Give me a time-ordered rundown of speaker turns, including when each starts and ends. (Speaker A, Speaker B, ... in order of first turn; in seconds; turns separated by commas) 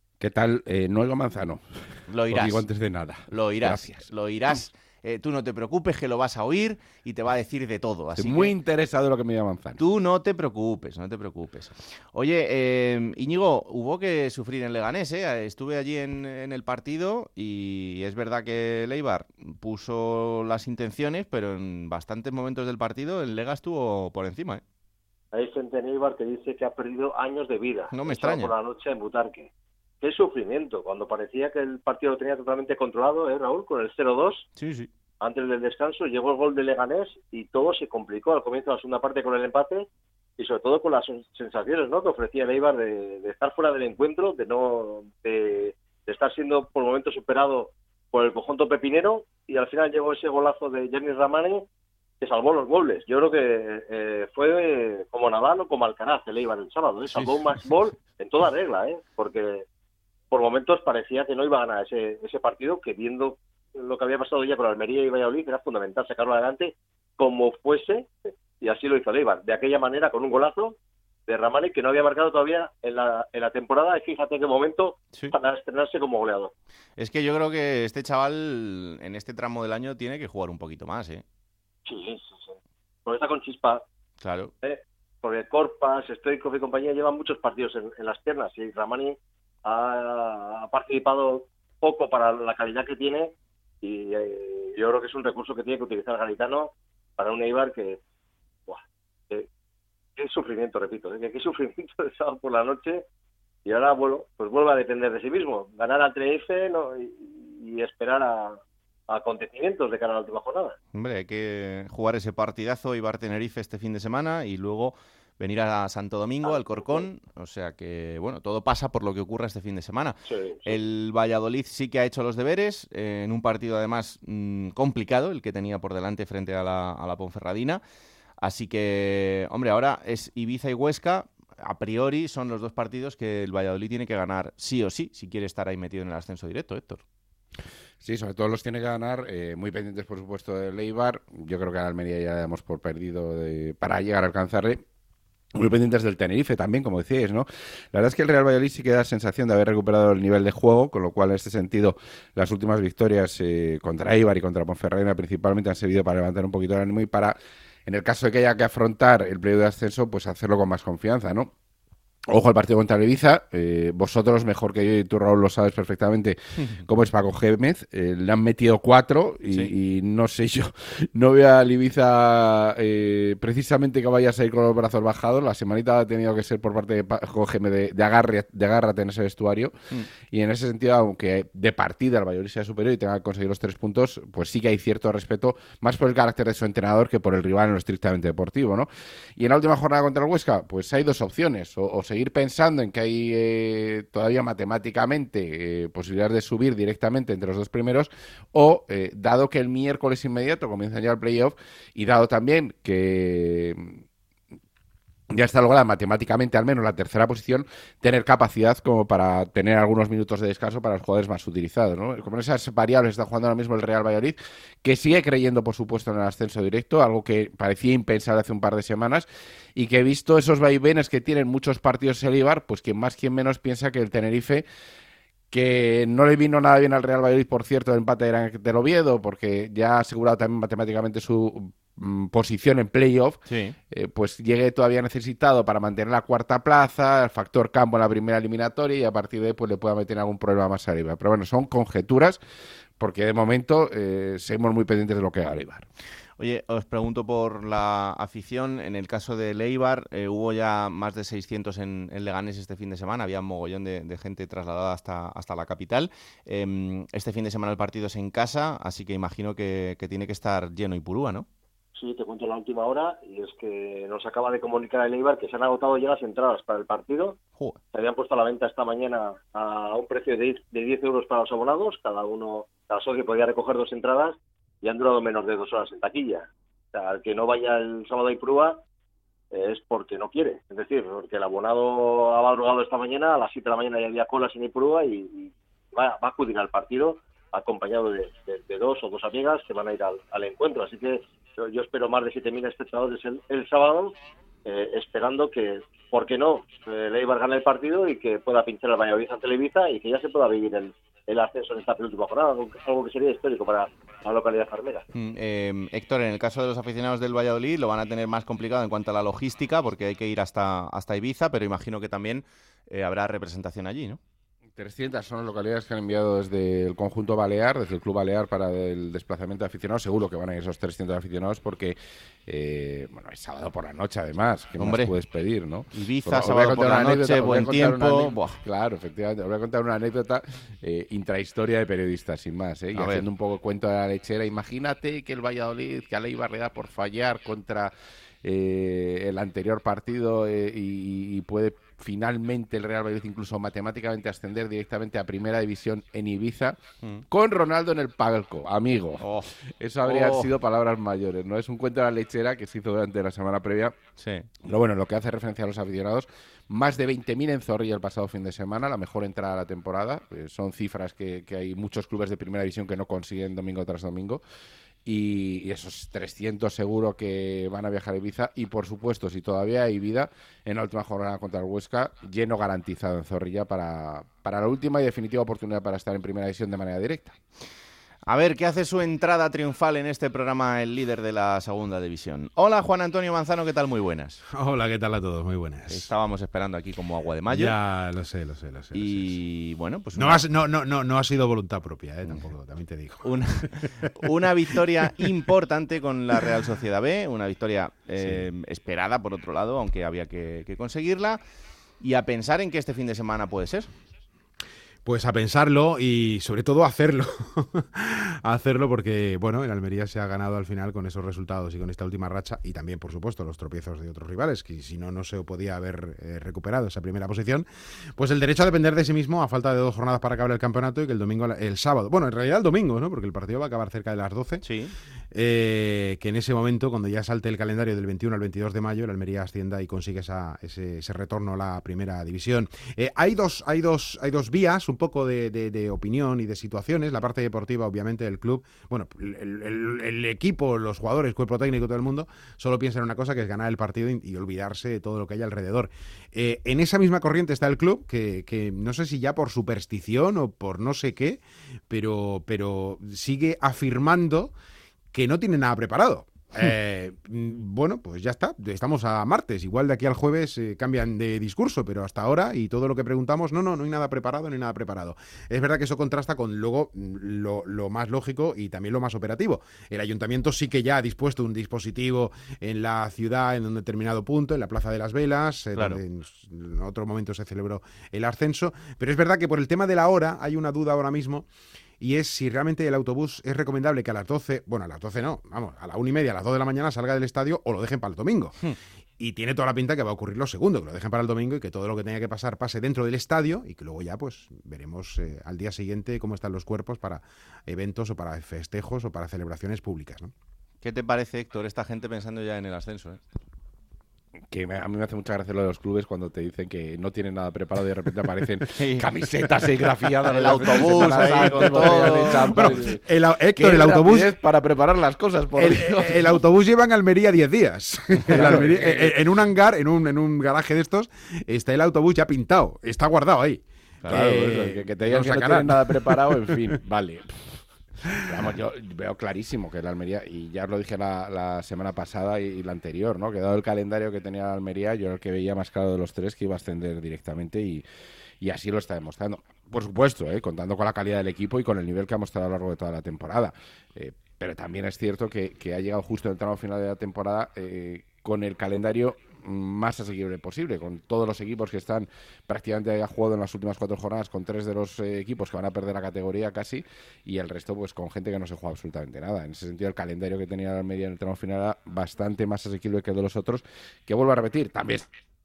Speaker A: 0.2-4.6, Speaker B: 2.1-2.6, Speaker B: 3.3-8.5, Speaker A: 8.1-9.8, Speaker B: 9.8-24.6, Speaker C: 25.3-29.5, Speaker B: 27.9-28.5, Speaker C: 30.0-34.5, Speaker B: 34.6-34.9, Speaker C: 35.2-39.9, Speaker C: 40.4-51.6, Speaker C: 52.2-59.6, Speaker B: 57.1-57.4, Speaker C: 60.3-76.5, Speaker B: 77.0-81.2, Speaker C: 81.8-82.5, Speaker C: 83.0-83.8, Speaker B: 84.2-84.5, Speaker C: 84.6-98.0, Speaker C: 98.7-99.5, Speaker C: 100.2-103.0, Speaker C: 103.6-110.8, Speaker B: 110.9-127.8, Speaker C: 116.4-117.1, Speaker C: 120.3-120.8, Speaker B: 128.4-137.0, Speaker A: 138.0-144.8, Speaker A: 145.5-161.5, Speaker A: 162.3-179.7, Speaker A: 180.3-204.0, Speaker A: 205.3-224.7, Speaker A: 225.5-242.4, Speaker B: 233.5-233.8, Speaker A: 243.0-245.9, Speaker B: 246.4-261.4, Speaker C: 261.9-267.4, Speaker C: 267.9-278.8, Speaker C: 279.5-305.0, Speaker B: 305.1-314.2, Speaker A: 314.8-353.9, Speaker B: 324.8-325.1, Speaker B: 325.9-328.6, Speaker B: 332.9-333.2, Speaker B: 349.2-349.5, Speaker B: 350.0-350.5, Speaker B: 354.2-354.5, Speaker A: 354.6-364.4, Speaker A: 365.0-377.3, Speaker B: 378.3-384.4, Speaker D: 384.5-386.1, Speaker B: 385.9-387.8, Speaker D: 387.5-389.4, Speaker B: 388.9-390.4, Speaker D: 390.1-394.1, Speaker B: 393.2-401.4, Speaker D: 394.7-395.3, Speaker B: 402.0-403.9, Speaker D: 405.0-424.6, Speaker B: 424.6-424.9, Speaker D: 425.3-454.5, Speaker D: 455.1-481.5, Speaker B: 475.7-476.0, Speaker D: 482.0-488.6, Speaker D: 489.2-500.3, Speaker B: 500.8-503.2, Speaker A: 504.5-513.0, Speaker B: 508.8-509.1, Speaker B: 510.4-512.8, Speaker D: 510.6-514.3, Speaker A: 513.5-516.4, Speaker D: 515.6-526.8, Speaker A: 518.3-519.1, Speaker B: 518.4-518.8, Speaker A: 524.1-527.6, Speaker D: 528.1-528.4, Speaker A: 528.2-537.8, Speaker A: 538.4-565.1